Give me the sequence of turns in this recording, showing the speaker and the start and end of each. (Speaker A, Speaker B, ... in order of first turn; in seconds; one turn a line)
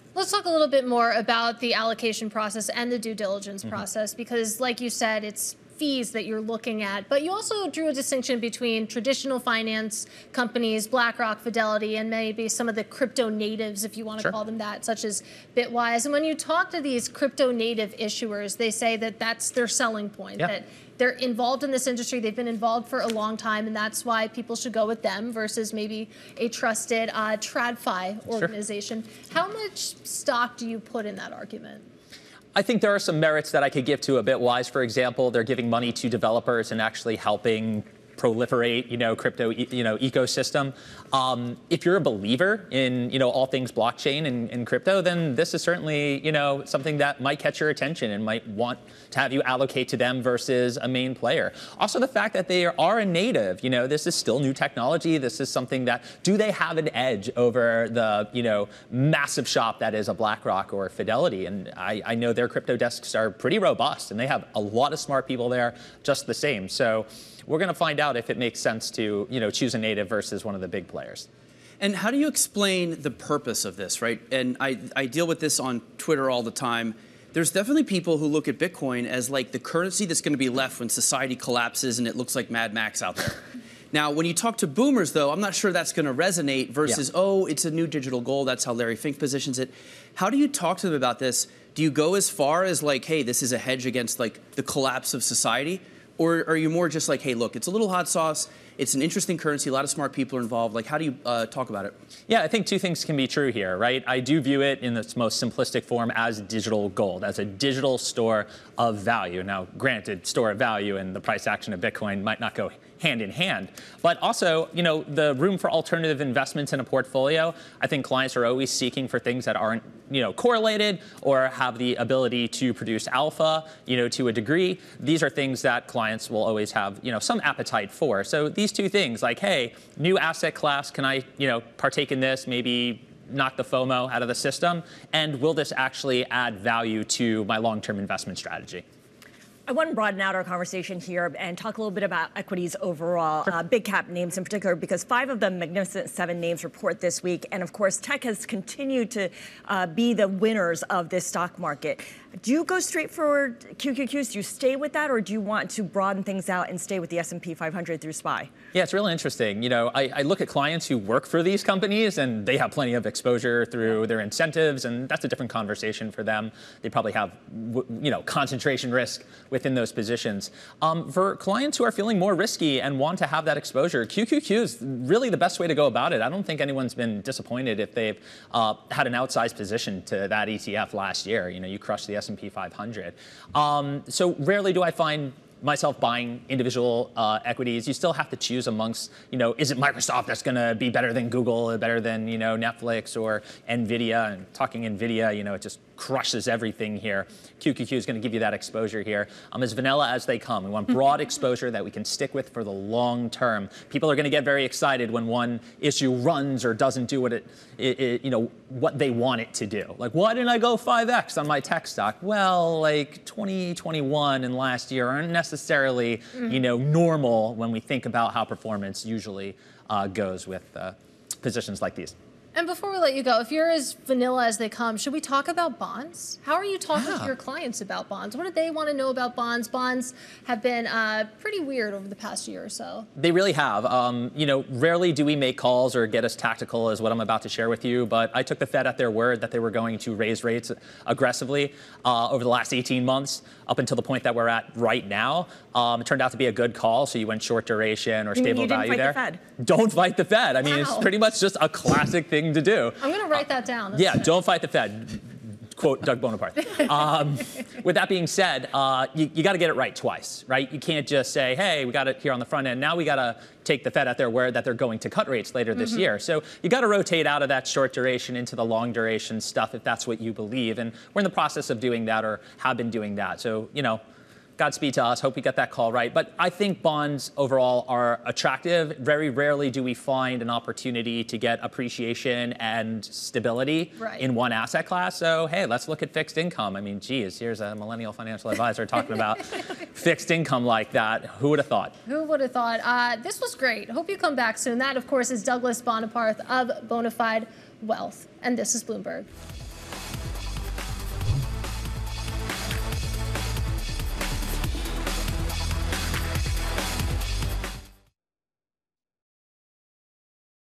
Speaker A: 0.1-31.9
Speaker B: 32.5-71.3
Speaker C: 71.8-83.4
Speaker C: 83.9-101.9
Speaker B: 102.3-138.8
Speaker D: 139.7-158.5
Speaker B: 158.7-222.1
Speaker A: 222.5-233.1
Speaker B: 226.9-227.3
Speaker B: 233.2-274.0
Speaker D: 248.3-249.4
Speaker A: 250.7-251.1
Speaker A: 253.0-254.3
Speaker B: 274.6-291.9
Speaker A: 284.0-284.2
Speaker A: 292.1-299.3